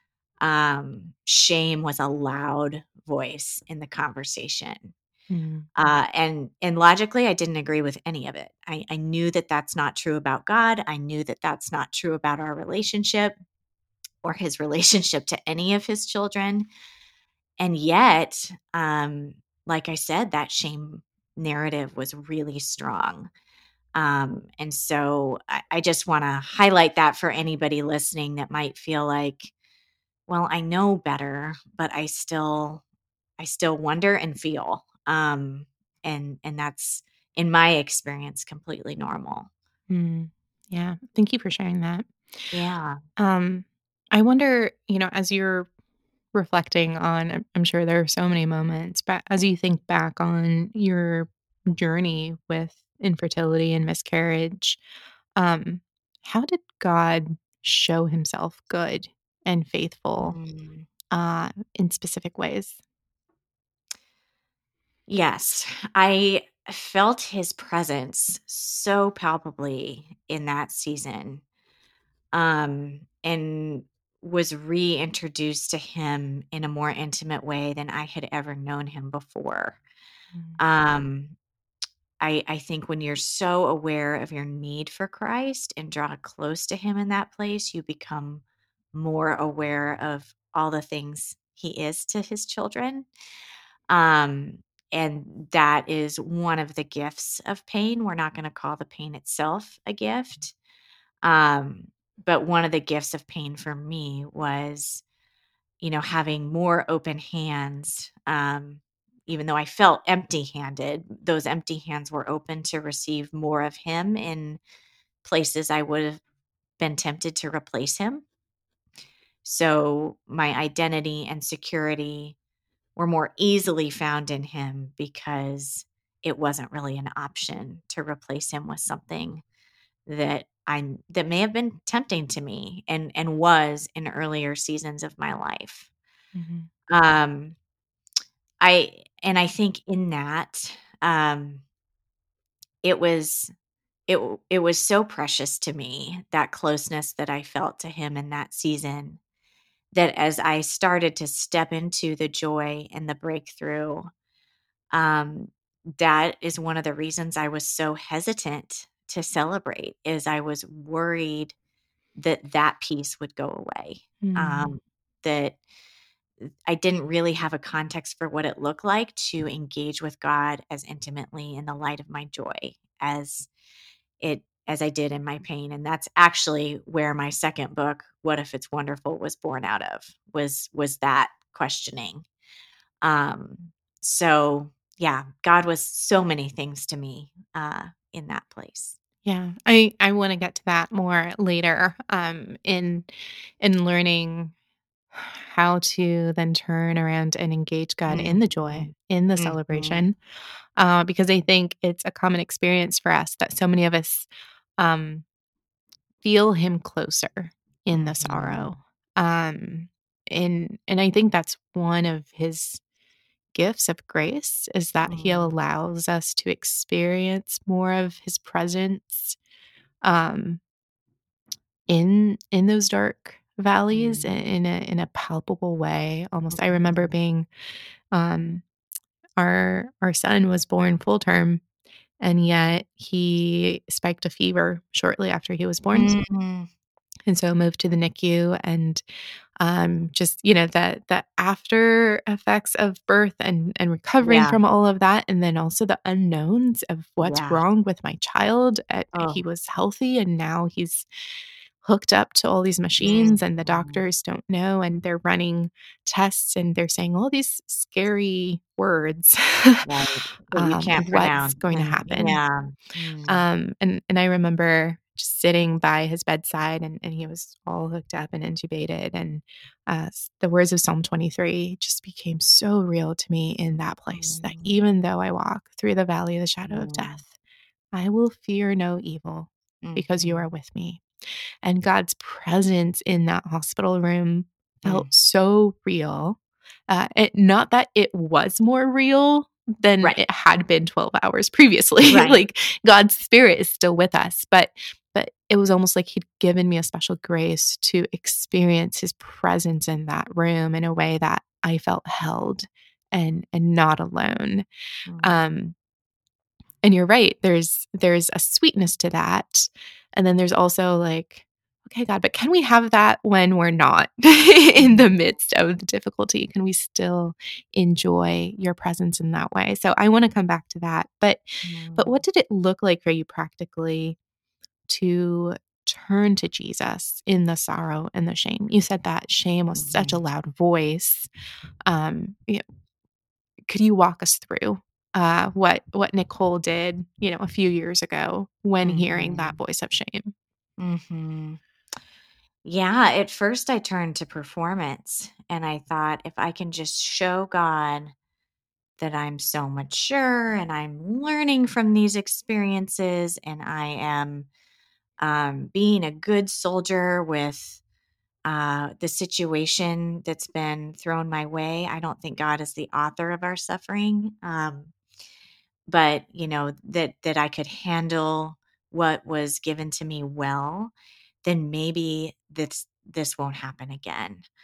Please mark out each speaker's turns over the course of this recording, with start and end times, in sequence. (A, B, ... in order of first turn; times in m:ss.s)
0:00.4-0:04.9 A
0:05.3-0:05.9 B
0:05.8-0:13.4 A
0:14.2-0:16.7 A
0:17.6-0:23.3 A
0:24.0-0:29.5 A
0:30.3-0:32.8 A
0:33.4-0:39.5 A
0:39.9-0:42.1 B
0:42.5-0:43.0 A
0:43.2-0:45.7 B
0:46.3-0:54.8 B
0:55.4-1:00.4 B
1:00.2-1:00.9 A
1:01.1-1:02.8 B
1:05.1-1:11.4 A
1:12.3-1:19.8 A
1:20.3-1:20.6 B
1:20.6-1:21.4 A
1:22.2-1:28.4 A
1:28.9-1:33.1 A
1:33.9-1:40.6 A
1:41.2-1:45.0 A
1:45.8-1:54.6 A
1:55.2-1:56.2 A
1:56.8-1:58.2 A
1:59.4-2:02.4 A
2:03.0-2:09.4 A
2:10.1-2:15.9 A
2:16.4-2:16.7 B
2:16.9-2:17.6 A
2:18.6-2:21.6 A
2:22.8-2:23.5 A
2:24.1-2:29.2 A
2:29.9-2:34.1 A
2:34.9-2:41.5 A
2:42.2-2:45.6 A
2:44.2-2:44.8 B
2:46.4-2:53.5 A
2:54.2-3:02.3 A
3:03.0-3:09.0 A
3:09.2-3:14.5 B
3:15.1-3:20.2 B
3:18.1-3:20.1 A
3:20.8-3:24.3 B
3:24.8-3:25.3 B
3:26.2-3:32.8 B
3:27.9-3:28.7 A
3:33.6-3:39.4 B
3:35.1-3:35.5 A
3:40.0-3:40.6 B
3:41.9-3:47.5 B
3:43.9-3:44.4 A
3:46.5-3:47.1 A
3:48.1-3:48.6 B
3:49.4-3:51.6 B
3:52.2-3:56.2 B
3:55.9-3:56.7 A
3:57.3-3:59.0 B
3:59.6-4:11.1 B
4:04.2-4:04.6 A
4:07.2-4:07.6 A
4:09.1-4:09.4 A
4:11.8-4:19.9 B
4:13.0-4:14.0 A
4:19.8-4:23.5 A
4:20.5-4:22.4 B
4:23.3-4:37.3 B
4:34.1-4:34.7 A
4:36.6-4:37.2 A
4:37.9-4:41.0 B
4:39.8-4:40.5 A
4:41.6-4:46.4 B
4:46.9-5:04.7 B
4:52.1-4:52.4 A
5:05.1-5:05.4 A
5:05.2-5:05.8 B
5:06.8-5:24.2 B
5:14.8-5:15.0 A
5:21.6-5:22.2 A
5:24.9-5:31.3 B
5:29.8-5:30.2 A
5:31.9-5:32.6 B
5:33.7-5:40.3 B
5:38.8-5:39.6 A
5:40.8-5:41.6 A
5:42.6-5:48.1 A
5:49.0-5:54.5 A
5:55.2-5:57.8 A
5:58.5-6:04.9 A
6:05.9-6:14.5 A